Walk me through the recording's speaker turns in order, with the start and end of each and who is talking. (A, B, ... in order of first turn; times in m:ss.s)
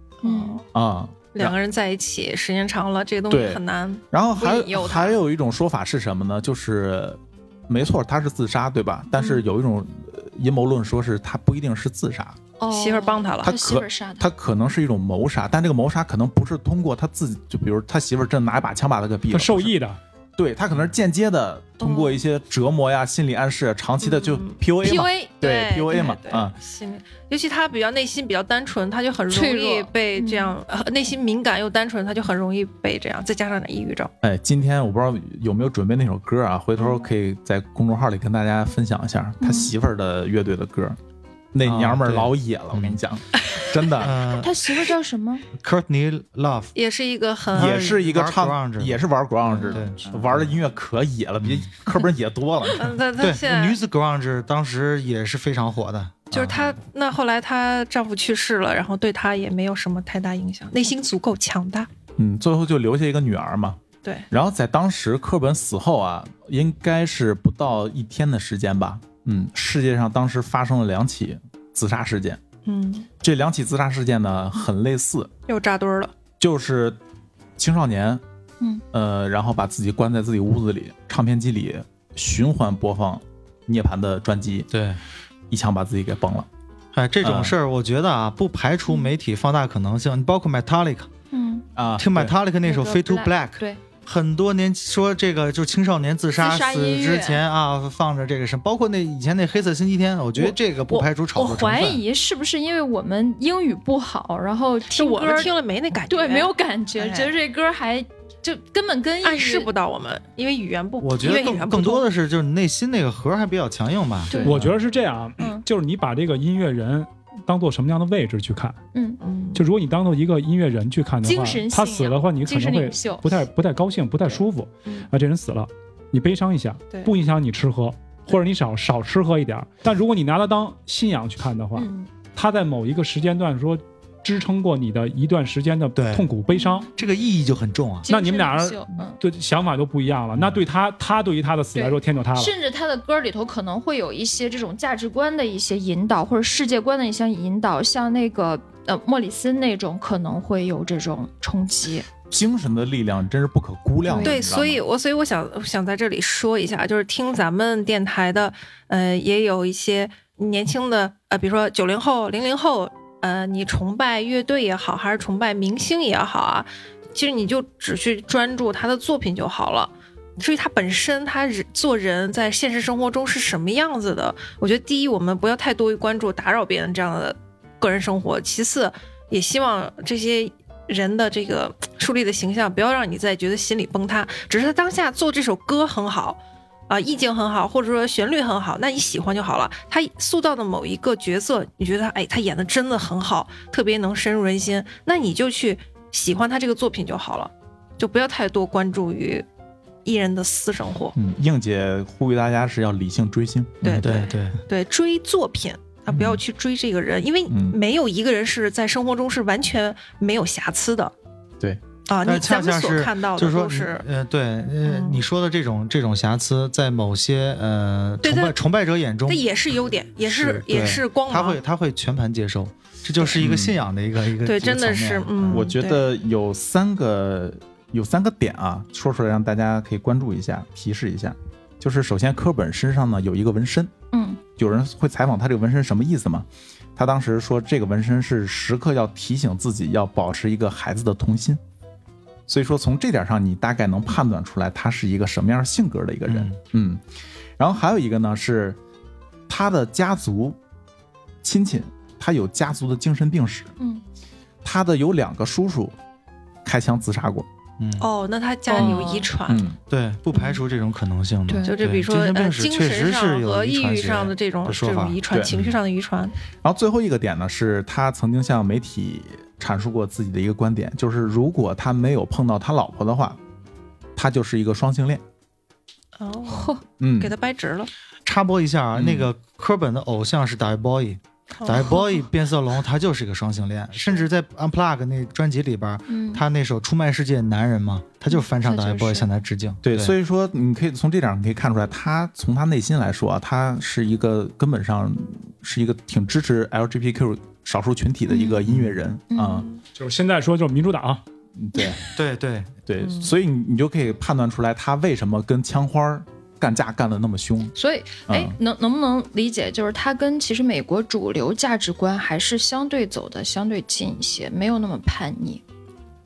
0:00.2-0:00.6 A
0:00.2-0:00.6 B
0:00.7-0:01.6 C
0:01.3-0:05.2 A
0:03.3-0:12.4 C
0:09.2-0:09.4 A
0:12.6-0:14.3 B
0:12.7-0:13.5 A
0:13.4-0:19.7 C
0:19.3-0:20.0 D
0:20.4-0:26.6 C
0:21.8-0:22.2 A
0:24.0-0:24.6 A
0:24.8-0:25.3 B
0:25.4-0:34.1 A
0:29.3-0:30.6 B
0:34.2-0:41.0 C
0:36.8-0:37.0 A
0:39.4-0:39.7 B
0:41.5-0:44.2 C
0:41.6-0:43.0 E
0:44.0-0:44.5 E
0:44.3-0:45.4 B
0:45.5-0:46.7 E
0:46.7-0:48.0 A
0:47.5-0:50.5 E
0:47.5-0:53.0 C
0:51.4-0:51.7 E
0:52.8-0:53.8 A
0:53.2-0:56.7 E
0:56.3-1:01.9 A
1:02.2-1:03.8 C
1:04.3-1:12.4 C
1:12.6-1:13.1 A
1:13.2-1:15.3 C
1:15.5-1:16.1 A
1:16.4-1:17.0 C
1:17.6-1:18.2 C
1:18.9-1:24.7 C
1:24.7-1:25.0 E
1:25.5-1:26.5 C
1:26.9-1:31.1 E
1:27.2-1:27.5 C
1:31.3-1:31.7 B
1:31.8-1:32.3 C
1:32.0-1:42.0 E
1:32.6-1:33.8 B
1:36.3-1:37.4 B
1:40.4-1:45.5 B
1:44.9-1:47.3 A
1:46.1-1:49.7 B
1:49.2-1:52.1 A
1:51.0-1:54.7 E
1:54.4-1:58.8 D
1:55.4-1:55.6 B
1:58.9-1:59.2 B
1:59.2-1:59.6 A
1:59.5-2:16.9 D
2:01.2-2:03.4 B
2:11.7-2:12.1 B
2:15.9-2:16.3 E
2:16.5-2:16.9 B
2:16.9-2:18.1 E
2:18.0-2:19.2 B
2:18.1-2:22.5 D
2:21.7-2:32.1 B
2:32.2-2:34.8 C
2:34.0-2:34.4 B
2:34.2-3:19.4 A
3:20.0-3:21.1 A
3:21.1-3:24.1 C
3:23.8-3:31.1 A
3:23.9-3:24.6 E
3:26.1-3:26.4 C
3:27.5-3:27.8 C
3:32.1-3:34.0 A
3:32.2-3:39.5 E
3:34.8-3:35.2 A
3:38.2-3:38.6 A
3:39.3-3:41.6 A
3:40.2-3:45.7 E
3:43.4-3:43.8 C
3:44.4-3:46.0 A
3:45.5-3:53.9 C
3:54.1-3:54.4 B
3:54.6-4:01.6 C
4:02.5-4:07.0 C
4:06.3-4:06.6 E
4:07.6-4:08.8 C
4:09.5-4:10.6 C
4:11.4-4:13.7 C
4:13.8-4:14.0 B
4:14.6-4:16.0 C
4:16.6-4:17.4 C
4:17.8-4:18.1 E
4:18.0-4:19.6 A
4:18.7-4:19.3 B
4:18.7-4:19.1 E
4:19.4-4:19.8 C
4:19.9-4:25.2 E
4:21.5-4:21.8 B
4:21.6-4:26.3 A
4:25.3-4:25.7 C
4:26.6-4:33.4 C
4:34.2-4:35.2 C
4:36.2-4:37.9 A
4:36.5-4:36.8 B
4:37.0-4:37.3 C
4:38.2-4:50.1 E
4:38.9-4:39.3 C
4:41.6-4:42.2 A
4:46.1-4:46.4 B
4:48.3-4:49.3 B
4:49.8-4:59.7 C
4:58.3-4:58.7 B
4:58.7-4:59.0 E
4:59.3-4:59.7 B
4:59.9-5:01.2 D
5:01.5-5:02.0 C
5:02.1-5:02.7 E
5:02.9-5:07.7 C
5:03.0-5:03.3 A
5:07.8-5:15.6 B
5:08.3-5:08.6 C